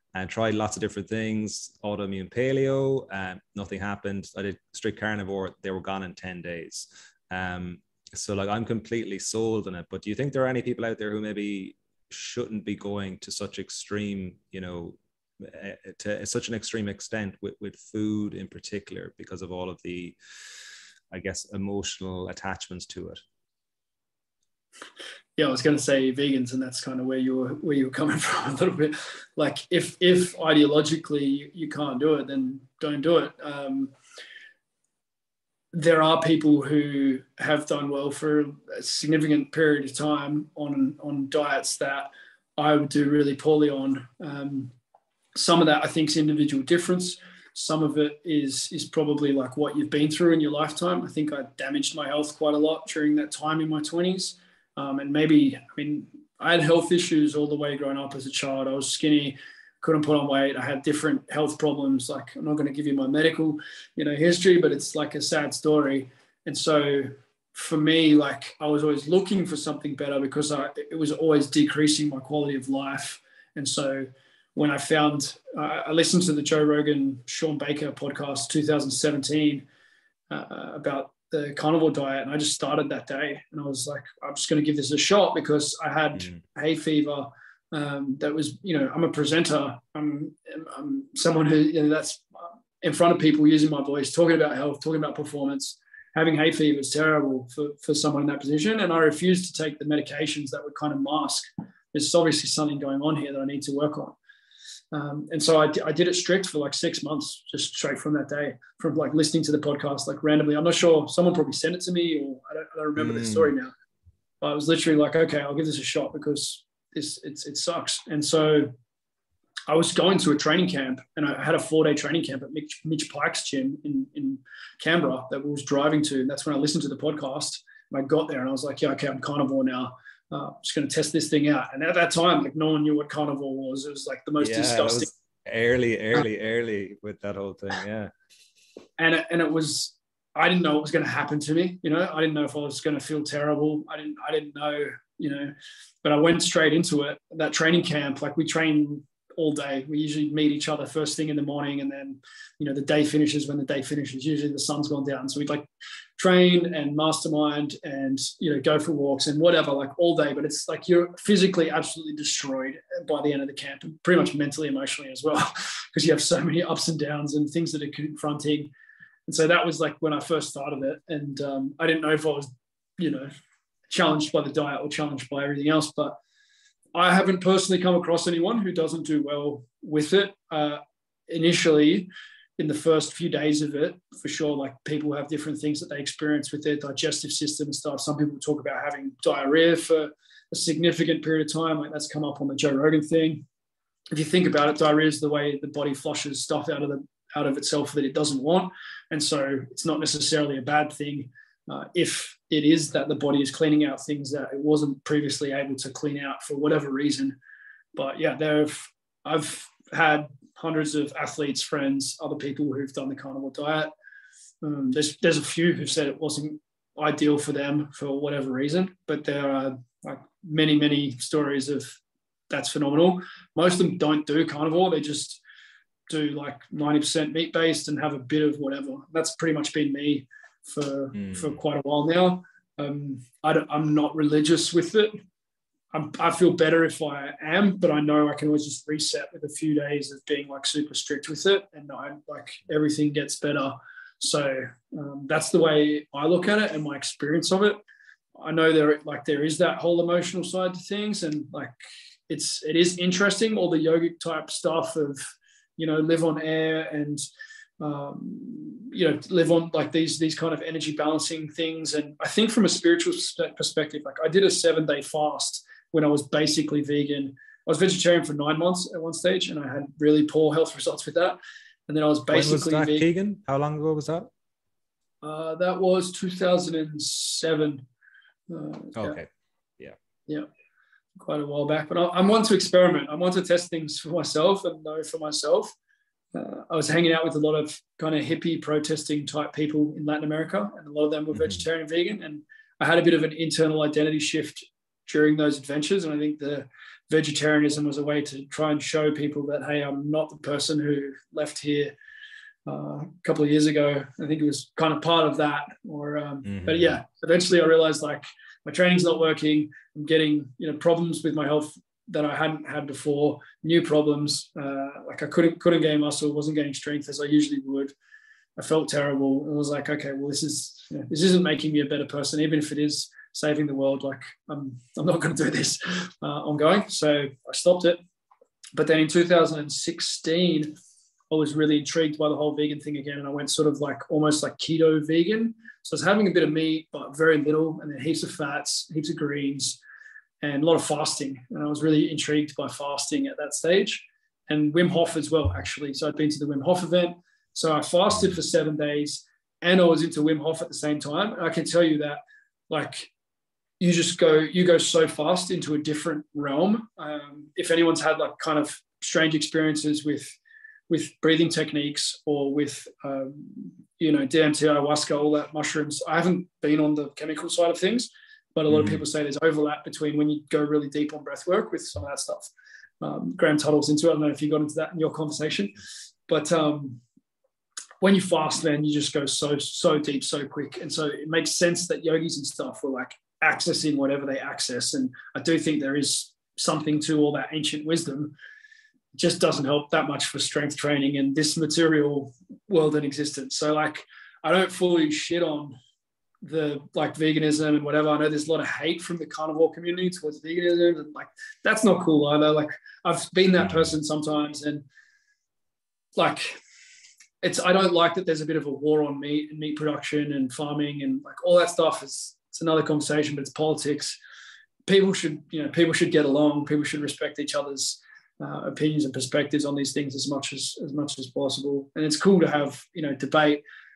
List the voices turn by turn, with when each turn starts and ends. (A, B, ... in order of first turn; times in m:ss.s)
0:00.1-0:20.2 A
0:21.1-0:23.2 A
0:25.4-0:33.9 B
0:35.7-0:44.7 B
0:45.4-1:19.6 B
1:20.3-1:44.2 B
1:44.9-1:53.7 B
1:53.0-1:53.5 A
1:54.4-1:58.7 B
1:59.7-2:15.1 B
2:14.4-2:18.1 A
2:19.0-2:25.5 B
2:26.0-2:48.7 B
2:49.3-2:53.3 B
2:53.9-2:56.2 B
2:57.0-3:13.4 B
3:14.1-3:27.4 B
3:28.0-3:33.9 B
3:34.6-3:42.0 B
3:42.5-3:45.4 B
3:46.1-3:55.1 B
3:51.2-3:51.5 A
3:55.9-4:07.8 B
4:08.4-4:11.8 B
4:12.3-4:15.2 B
4:15.8-4:17.2 B
4:17.8-4:33.1 B
4:32.3-4:34.3 A
4:35.2-4:37.8 B
4:38.5-4:39.2 B
4:39.0-4:39.3 A
4:41.2-4:45.7 B
4:46.3-5:02.0 B
4:51.4-4:51.6 A
5:02.7-5:18.0 B
5:06.4-5:07.0 A
5:18.6-5:28.0 B
5:28.8-5:30.8 B
5:31.3-5:39.8 B
5:40.4-5:53.1 B
5:53.8-6:00.4 B
6:00.9-6:12.5 B
6:08.7-6:09.0 A
6:13.0-6:15.8 B
6:16.3-6:17.0 B
6:18.0-6:28.4 B
6:29.2-6:35.8 B
6:36.4-6:44.8 B
6:46.2-6:46.6 B
6:47.4-6:54.2 B
6:54.9-7:03.6 B